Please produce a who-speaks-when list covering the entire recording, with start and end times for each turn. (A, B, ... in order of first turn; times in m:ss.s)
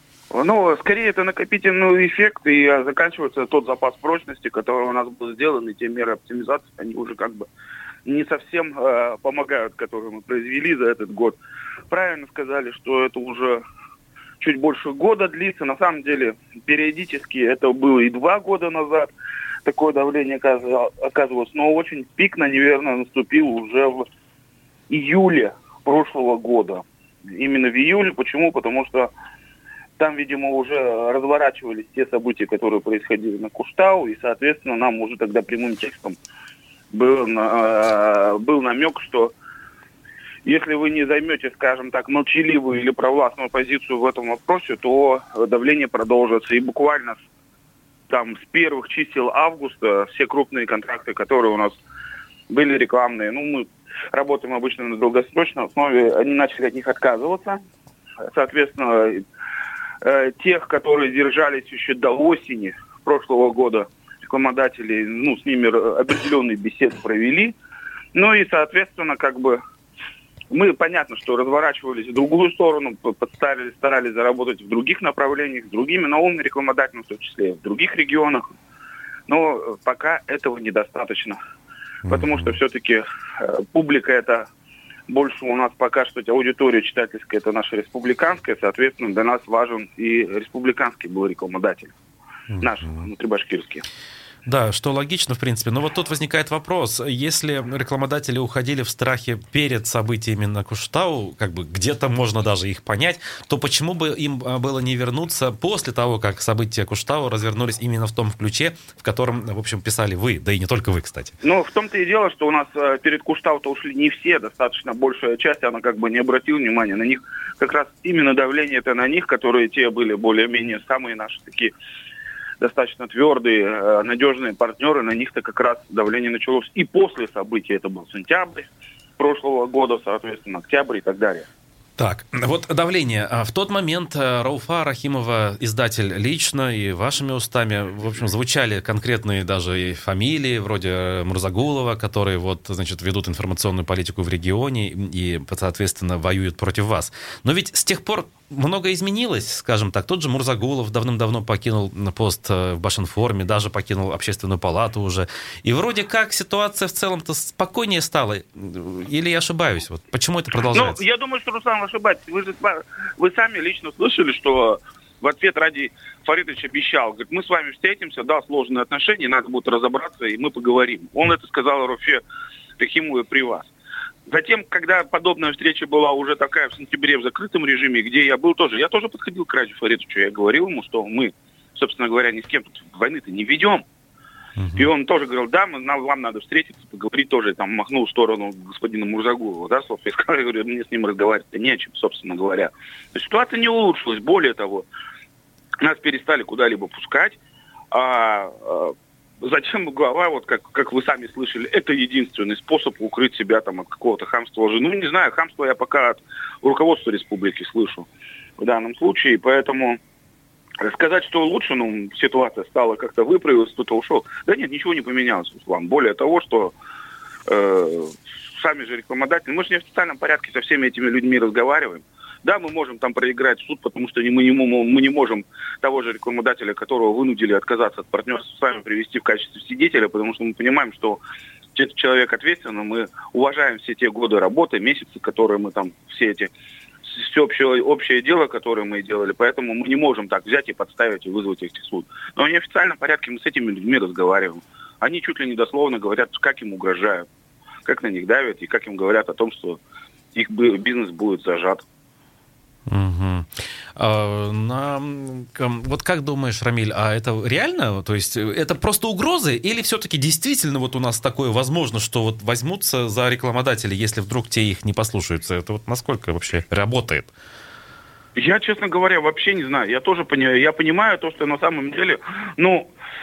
0:00.3-0:07.5 A
0:08.0-0:11.4 A
0:11.9-0:13.6 A
0:14.4-0:19.1 A
0:19.6-0:24.0 A
0:24.9-0:29.1 A
0:30.0-0:36.2 A
0:36.9-0:39.3 A
0:40.4-0:47.2 A
0:48.1-0:51.8 A
0:52.5-0:57.6 A
0:58.2-0:59.2 A
1:00.0-1:07.5 A
1:08.1-1:09.6 A
1:10.5-1:18.4 A
1:19.3-1:21.4 A
1:22.1-1:22.5 B
1:22.1-1:24.5 A
1:25.1-1:31.9 A
1:32.5-1:33.0 B
1:32.6-1:33.8 A
1:34.4-1:51.3 B
1:51.4-2:01.7 A
2:02.6-2:08.7 A
2:09.2-2:11.5 A
2:12.0-2:41.0 B
2:40.7-2:52.2 A
2:52.8-2:53.7 A
2:54.3-3:03.8 A
3:04.6-3:04.9 B
3:04.8-3:14.9 A
3:15.8-3:17.4 A
3:17.9-3:30.0 A
3:30.8-3:36.7 A
3:37.5-3:51.2 A
3:51.7-3:56.5 A
3:57.0-4:07.2 A
4:07.8-4:09.8 A
4:10.3-4:11.8 A
4:12.9-4:27.3 B
4:28.4-4:32.9 A